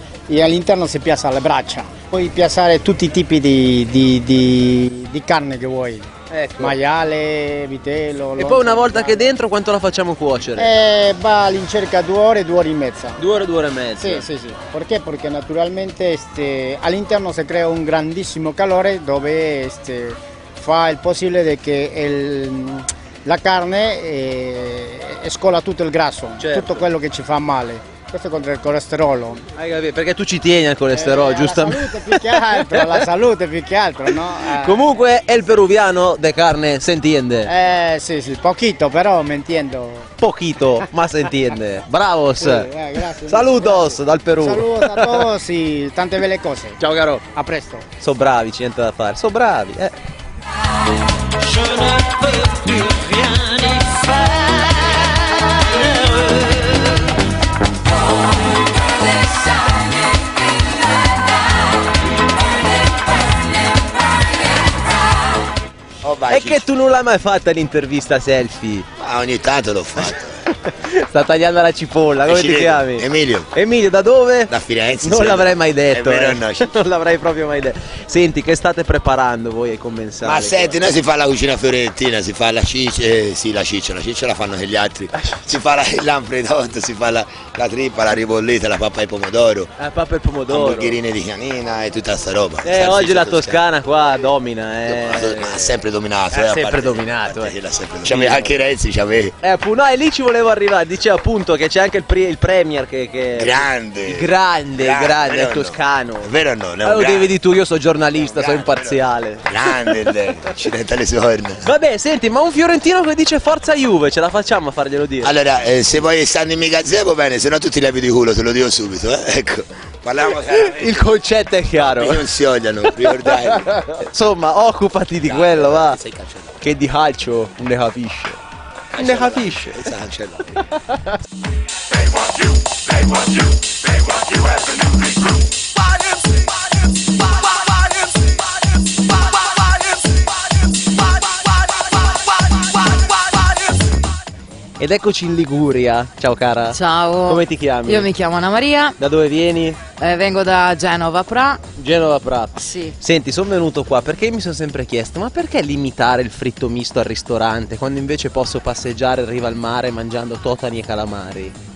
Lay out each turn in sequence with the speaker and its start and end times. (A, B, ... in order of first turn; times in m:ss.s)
0:00.3-0:06.1 A
0:06.3-0:06.8 B
0:06.6-0:09.3 A
0:08.4-0:10.7 B
0:10.6-0:13.2 A
0:13.2-0:14.2 B
0:14.0-0:29.4 A
0:26.4-0:26.8 B
0:29.6-0:33.0 B
0:30.9-0:35.0 A
0:34.5-0:37.5 B
0:37.4-0:40.1 A
0:40.2-0:42.7 B
0:42.4-0:46.8 A
0:43.2-0:45.3 B
0:46.8-0:47.2 B
0:47.3-0:47.8 A
0:48.0-0:50.0 B
0:51.4-0:55.0 C
1:06.0-1:06.7 D
1:06.3-1:08.9 B
1:09.0-1:10.4 D
1:10.6-1:20.8 B
1:12.2-1:13.5 D
1:14.5-1:16.8 D
1:20.2-1:29.7 D
1:25.2-1:25.6 B
1:29.8-1:31.0 B
1:30.5-1:33.6 D
1:32.6-1:37.6 B
1:34.9-1:39.3 D
1:38.1-1:38.5 B
1:39.4-1:50.0 B
1:43.4-1:47.4 D
1:48.2-1:51.7 D
1:51.6-1:55.3 B
1:55.2-2:01.2 D
2:00.2-2:02.3 B
2:01.7-2:03.9 D
2:02.9-2:06.0 B
2:05.2-2:06.5 D
2:06.6-2:08.4 B
2:08.9-2:10.5 D
2:08.9-2:09.9 B
2:24.8-2:28.1 B
2:26.7-2:29.0 E
2:29.0-2:29.8 B
2:30.0-2:31.6 E
2:31.8-2:41.6 B
2:32.6-2:32.9 E